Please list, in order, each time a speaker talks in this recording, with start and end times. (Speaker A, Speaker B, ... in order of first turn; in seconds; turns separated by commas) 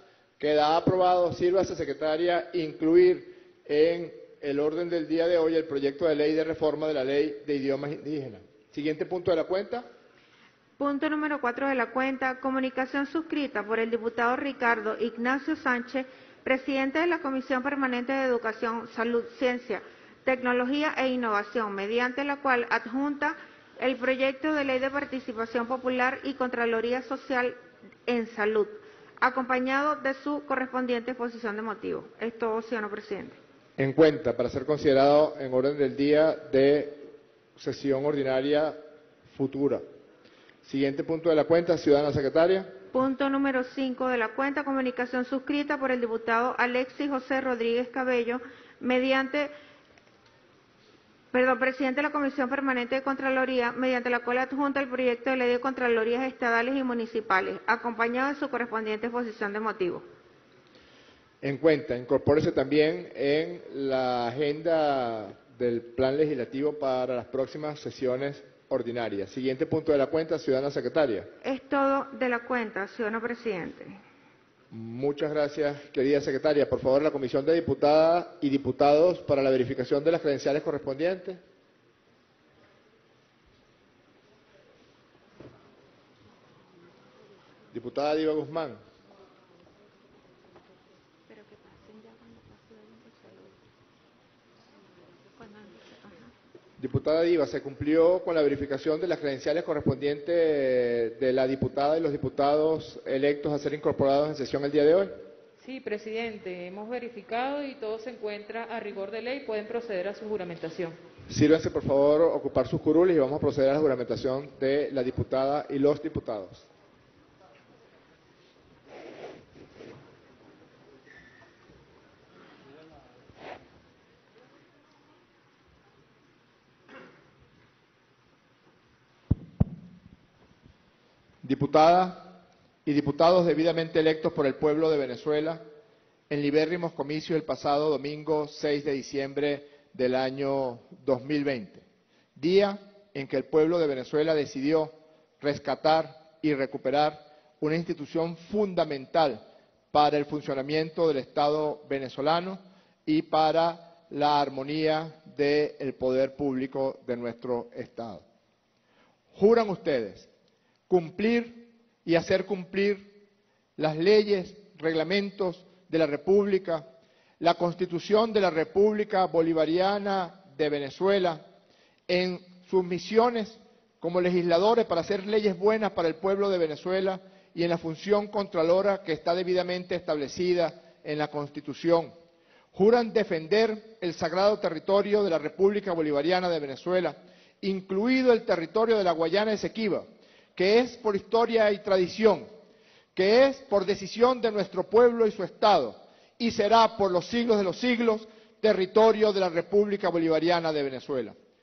Speaker A: 0.4-9.8, Speaker B: 10.8-33.4, Speaker A: 33.8-38.8, Speaker A: 39.3-39.8, Speaker A: 40.6-42.8, Speaker B: 42.9-49.5, Speaker B: 51.3-60.0, Speaker A: 61.4-71.3, Speaker B: 71.4-74.0, Speaker A: 74.7-81.4, Speaker A: 87.7-88.8, Speaker C: 91.3-93.6, Speaker C: 95.3-96.3, Speaker A: 96.8-105.2, Speaker C: 105.6-111.0, Speaker A: 111.3-116.7, Speaker A: 131.4-135.6, Speaker A: 136.3-141.8, Speaker A: 142.3-158.2, Speaker A: 159.3-160.3, Speaker A: 160.9-163.1, Speaker A: 163.8-166.9, Speaker A: 167.4-171.4, Speaker A: 172.1-182.1, Speaker A: 182.7-192.5, Speaker A: 193.1-201.3